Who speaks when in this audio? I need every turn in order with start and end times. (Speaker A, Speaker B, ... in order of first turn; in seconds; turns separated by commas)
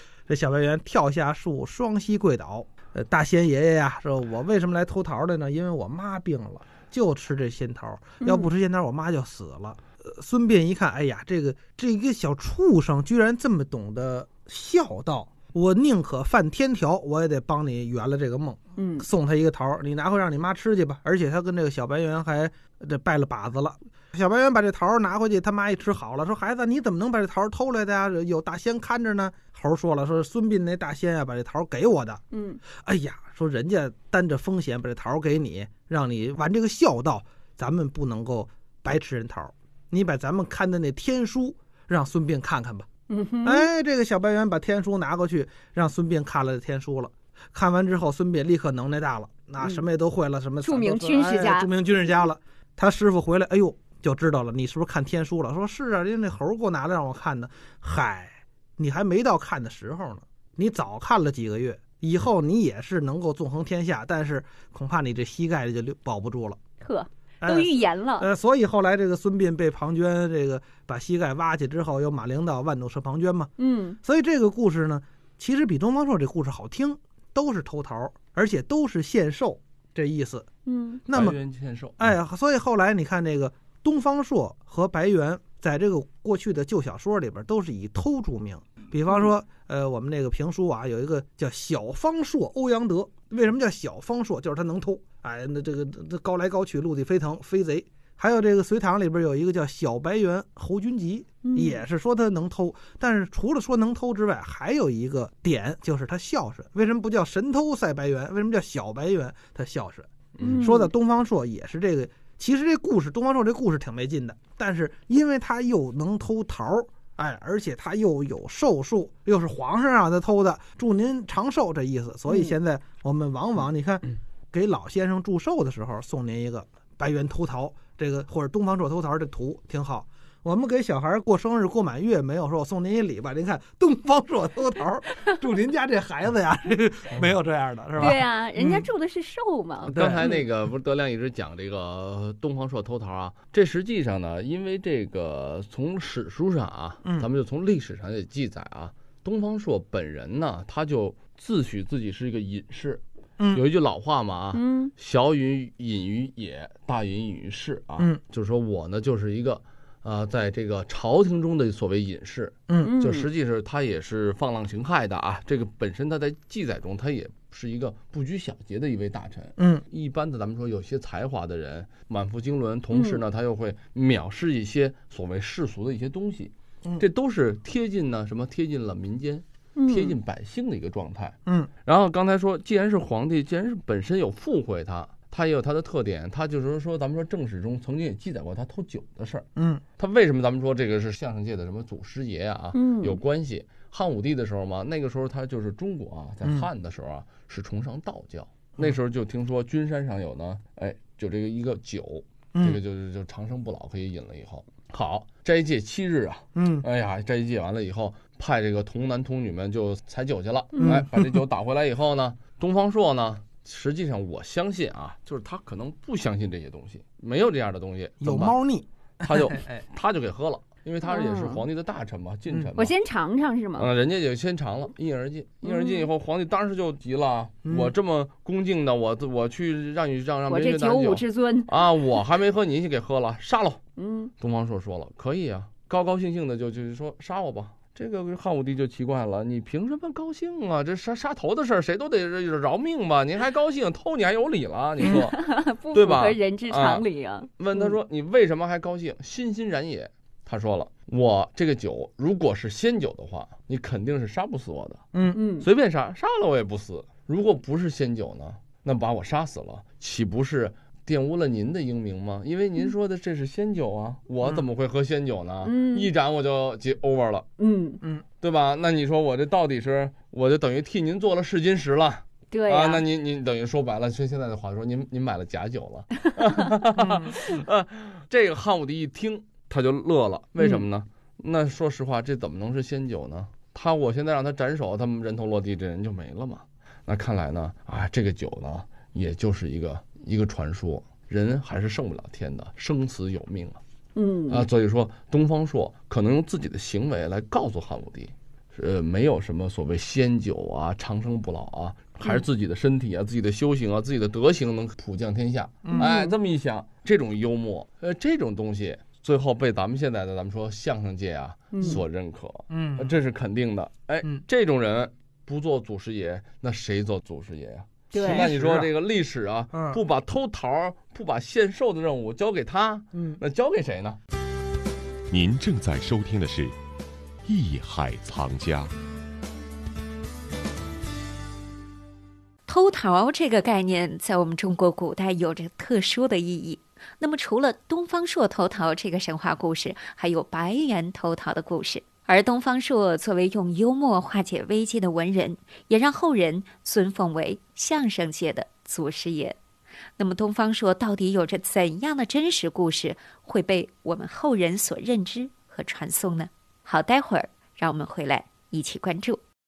Speaker A: 0.3-32.2, Speaker B: 8.2-8.5, Speaker B: 18.8-19.1, Speaker B: 32.3-32.6, Speaker A: 32.8-42.9, Speaker B: 43.1-43.7, Speaker A: 43.4-66.6, Speaker B: 50.6-51.7, Speaker B: 66.8-68.3, Speaker A: 67.4-73.5, Speaker B: 73.6-74.0, Speaker A: 74.0-80.5, Speaker B: 80.7-81.0, Speaker A: 81.1-81.4, Speaker C: 81.1-82.1, Speaker A: 82.0-138.8, Speaker B: 101.4-101.8, Speaker C: 110.4-110.7, Speaker B: 110.4-110.9, Speaker B: 122.3-122.5, Speaker B: 138.0-140.4, Speaker A: 139.8-140.2, Speaker C: 139.9-189.4, Speaker B: 154.5-154.9, Speaker B: 162.8-163.3, Speaker A: 169.6-169.8, Speaker B: 172.9-173.2, Speaker B: 179.8-180.2, Speaker A: 189.6-189.8, Speaker C: 190.0-218.6, Speaker B: 192.7-193.2, Speaker A: 206.5-206.8, Speaker B: 210.7-211.0, Speaker A: 210.8-211.3, Speaker A: 218.2-219.6, Speaker C: 219.2-222.9, Speaker B: 221.0-221.6, Speaker B: 222.8-223.9, Speaker C: 223.8-233.8, Speaker B: 225.6-226.1, Speaker A: 227.7-227.9, Speaker B: 230.5-231.8, Speaker B: 234.0-234.3, Speaker C: 234.4-247.1, Speaker B: 245.0-247.9, Speaker C: 247.6-255.0, Speaker B: 255.3-255.7, Speaker C: 255.6-267.4, Speaker B: 265.6-266.1, Speaker B: 267.6-268.0, Speaker C: 268.4-293.8, Speaker B: 272.5-273.0, Speaker B: 294.1-294.7, Speaker C: 294.5-324.2, Speaker B: 305.9-306.3, Speaker B: 311.7-312.0, Speaker A: 312.7-313.2, Speaker B: 318.1-318.5, Speaker A: 318.1-318.9, Speaker A: 319.7-320.0, Speaker A: 323.1-323.4, Speaker D: 325.3-326.8, Speaker D: 327.4-328.9, Speaker E: 332.7-349.6, Speaker E: 350.2-359.4